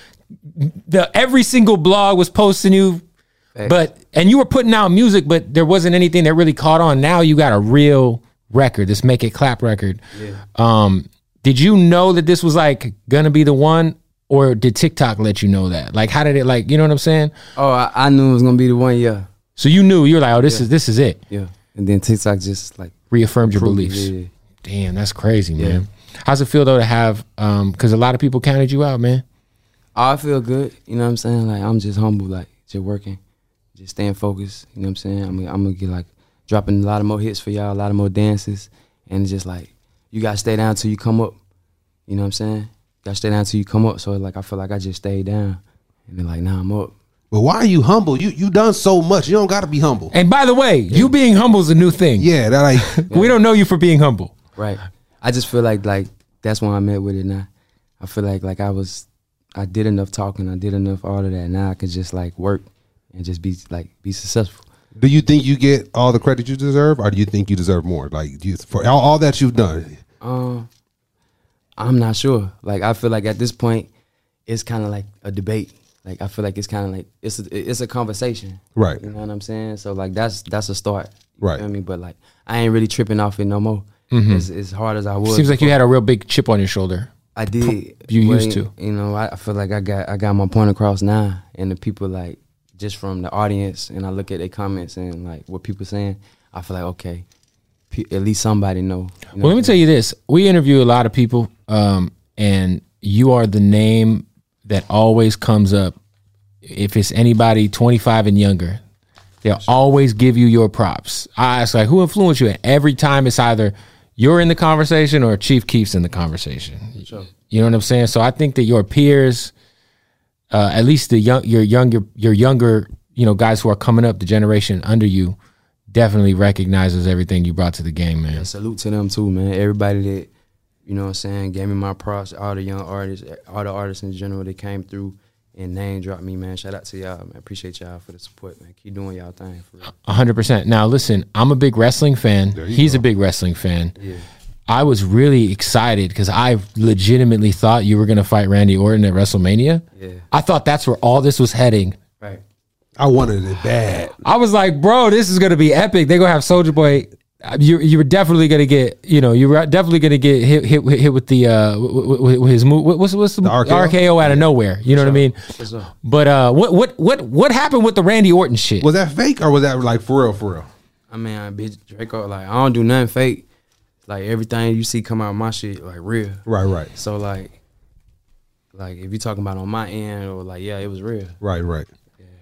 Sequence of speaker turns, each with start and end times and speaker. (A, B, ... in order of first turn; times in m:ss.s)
0:00.5-0:03.0 A
0:03.6-0:10.0 A
0:10.1-0:10.4 B
0:10.5-0:17.3 A
0:17.5-0:19.3 B
0:19.6-0:21.2 A
0:20.4-0:20.6 B
0:21.3-0:24.3 B
0:23.1-0:24.1 A
0:24.6-0:29.2 A
0:25.6-0:25.8 B
0:29.9-0:33.2 B
0:33.8-0:41.4 B
0:42.1-0:46.9 B
0:47.3-0:50.1 C
0:50.1-0:54.3 A
0:52.2-0:52.9 C
0:53.1-0:53.3 B
0:54.6-0:57.5 B
0:58.0-1:04.6 B
1:05.0-1:10.0 C
1:10.2-1:10.7 B
1:11.8-1:13.9 B
1:14.5-1:25.7 B
1:24.1-1:24.4 A
1:25.3-1:28.7 A
1:27.3-1:37.2 B
1:37.9-1:39.8 B
1:39.4-1:46.0 A
1:46.6-1:48.8 A
1:49.4-1:59.5 A
1:57.0-1:57.3 B
2:00.5-2:05.4 A
2:05.9-2:08.5 A
2:08.3-2:10.3 B
2:10.8-2:19.9 B
2:19.9-2:23.9 A
2:22.5-2:23.0 C
2:24.0-2:24.2 B
2:24.7-2:32.0 A
2:30.0-2:30.2 B
2:33.0-2:34.1 C
2:34.2-2:45.4 A
2:43.4-2:44.4 C
2:44.9-2:45.9 B
2:46.0-2:48.9 A
2:48.8-2:50.7 C
2:51.1-2:53.4 B
2:54.1-2:56.4 B
2:56.4-2:56.9 C
2:56.9-2:57.6 B
2:58.7-3:01.4 B
3:01.4-3:01.9 C